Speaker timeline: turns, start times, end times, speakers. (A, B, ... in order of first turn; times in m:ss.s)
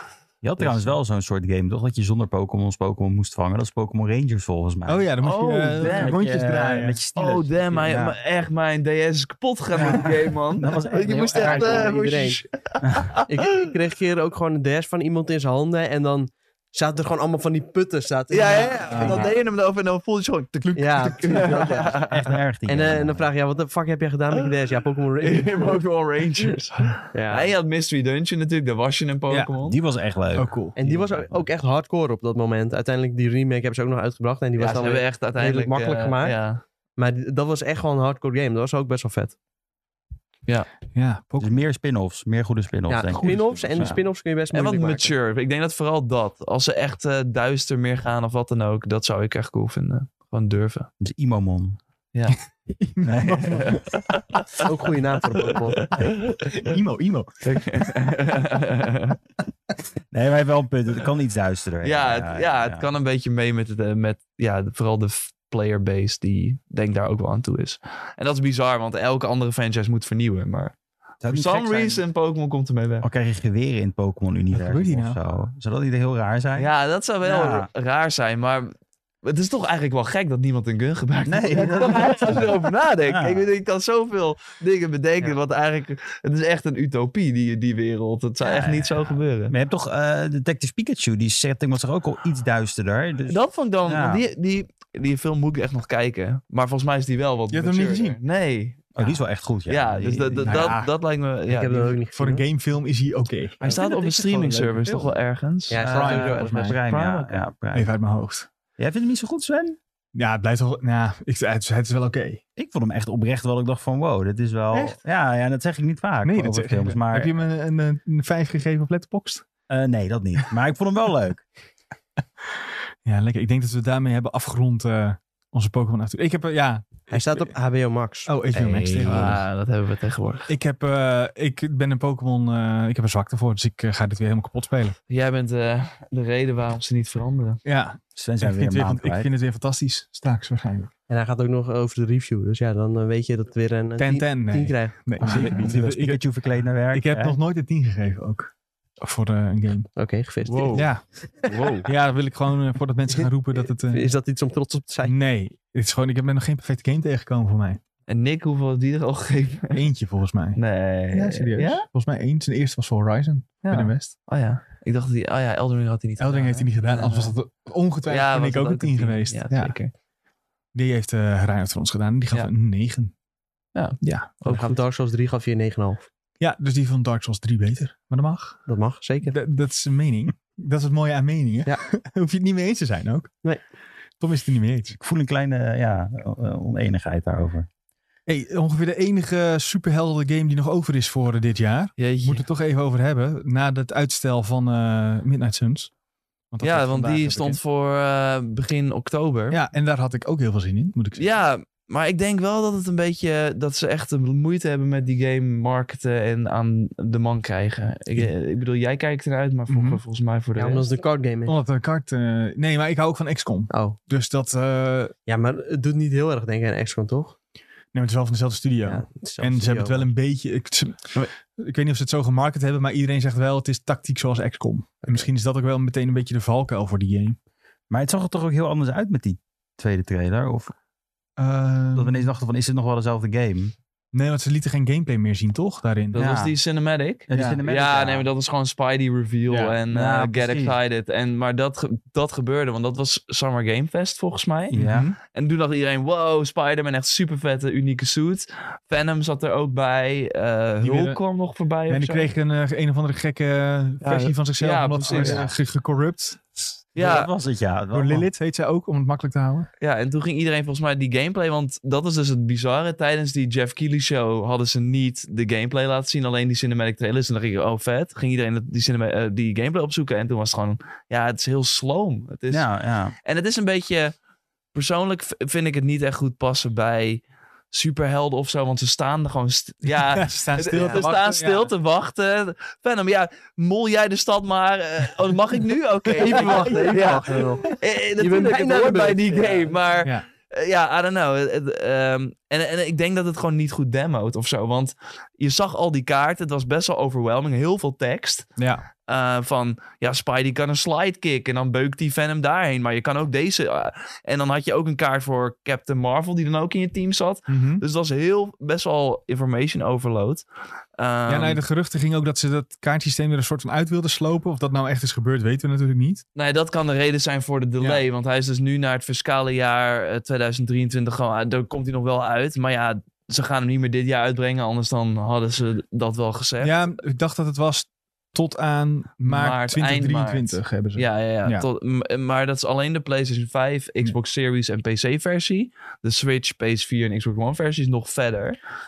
0:00.4-0:05.1 A
0:00.6-0:00.8 B
0:04.8-0:07.0 C
0:05.2-0:06.2 B
0:05.8-0:08.1 A
0:07.2-0:13.4 B
0:09.7-0:11.9 A
0:11.0-0:12.4 D
0:13.3-0:19.3 D
0:18.3-0:22.3 B
0:18.9-0:19.3 C
0:20.6-0:21.6 C
0:20.8-0:22.1 D
0:21.9-0:23.3 A
0:22.6-0:25.8 D
0:25.2-0:29.8 B
0:27.1-0:27.5 D
0:29.6-0:31.4 A
0:30.3-0:30.8 C
0:30.8-0:36.4 D
0:34.6-0:36.6 B
0:37.0-0:39.3 D
0:40.9-0:41.5 C
0:41.4-0:44.0 A
0:42.9-0:45.1 D
0:43.1-0:44.0 C
0:44.5-0:50.9 B
0:51.0-0:51.8 A
0:52.7-0:53.8 C
0:53.0-0:53.9 A
0:53.5-0:54.6 B
0:54.6-0:55.9 D
0:55.8-0:56.6 B
0:56.4-0:57.9 C
0:57.4-0:59.2 B
1:00.1-1:02.9 A
1:01.8-1:10.7 B
1:11.2-1:12.0 A
1:11.2-1:13.0 B
1:13.0-1:16.7 A
1:14.5-1:15.2 C
1:16.6-1:29.5 B
1:17.2-1:17.7 A
1:21.2-1:23.4 A
1:28.4-1:34.2 A
1:33.3-1:39.1 B
1:37.5-1:38.2 C
1:39.0-1:40.8 A
1:39.7-1:42.0 B
1:40.4-1:40.9 C
1:41.5-1:42.4 D
1:42.1-1:43.7 C
1:43.6-1:45.2 A
1:43.6-1:46.1 B
1:45.7-1:46.8 D
1:45.8-1:47.9 A
1:45.8-1:46.8 C
1:46.8-1:47.4 B
1:47.7-1:48.5 C
1:48.8-1:49.8 A
1:50.1-1:52.4 C
1:52.6-1:57.3 A
1:54.7-1:55.0 C
1:56.2-1:59.4 C
1:59.7-2:01.4 A
2:03.0-2:07.5 C
2:07.1-2:08.3 D
2:08.2-2:09.4 C
2:08.5-2:09.4 A
2:09.0-2:10.5 B
2:10.5-2:15.0 C
2:15.1-2:17.6 B
2:17.6-2:20.9 C
2:18.2-2:19.3 A
2:21.1-2:25.6 D
2:24.0-2:26.2 C
2:25.2-2:27.4 A
2:26.9-2:29.9 C
2:30.0-2:30.9 D
2:30.4-2:30.8 B
2:30.7-2:31.0 C
2:31.4-2:31.9 B
2:31.7-2:34.1 C
2:33.9-2:35.1 D
2:35.0-2:37.8 C
2:38.1-2:39.9 B
2:39.7-2:40.6 C
2:40.6-2:41.8 B
2:41.1-2:44.1 C
2:43.6-2:47.3 B
2:46.2-2:49.7 C
2:48.0-2:49.9 B
2:50.7-2:53.1 C
2:53.7-2:54.8 B
2:54.0-2:54.4 C
2:54.4-2:56.1 D
2:56.4-2:58.6 C
2:58.7-2:59.4 D
2:59.2-3:03.3 C
3:04.2-3:05.0 C
3:05.0-3:07.7 A
3:08.3-3:15.9 C
3:12.0-3:12.4 B
3:16.5-3:17.6 C
3:16.6-3:19.6 B
3:19.5-3:21.3 C
3:21.2-3:30.9 B
3:29.7-3:30.0 C
3:30.6-3:31.5 D
3:31.4-3:35.1 C
3:33.7-3:34.0 D
3:35.3-3:37.3 D
3:37.9-3:47.4 C
3:38.8-3:40.1 D
3:47.9-3:50.7 A
3:51.4-3:52.3 C
3:51.9-3:53.7 A
3:54.1-3:56.3 C
3:56.1-4:04.8 B
3:56.1-3:56.5 A
3:57.3-3:58.3 A
3:57.3-3:57.6 C
3:59.5-3:59.8 C
3:59.9-4:00.8 A
4:04.7-4:05.1 A
4:04.7-4:05.2 C
4:05.3-4:12.3 B
4:10.8-4:11.2 C
4:11.9-4:16.4 C
4:14.6-4:15.5 B
4:15.1-4:15.5 A
4:16.9-4:17.3 B
4:17.0-4:18.2 A
4:17.9-4:19.7 C
4:19.8-4:32.7 B
4:32.5-4:33.1 A
4:33.2-4:34.1 B
4:34.7-4:58.5 B
4:39.9-4:41.7 C
4:40.7-4:41.0 D
4:46.2-4:49.7 D
4:46.2-4:46.8 C
4:58.6-4:58.8 C
4:59.1-5:10.4 B
5:07.5-5:07.8 C
5:11.0-5:11.6 B
5:11.3-5:16.2 C
5:16.4-5:26.8 B
5:26.6-5:31.6 C
5:29.2-5:38.6 B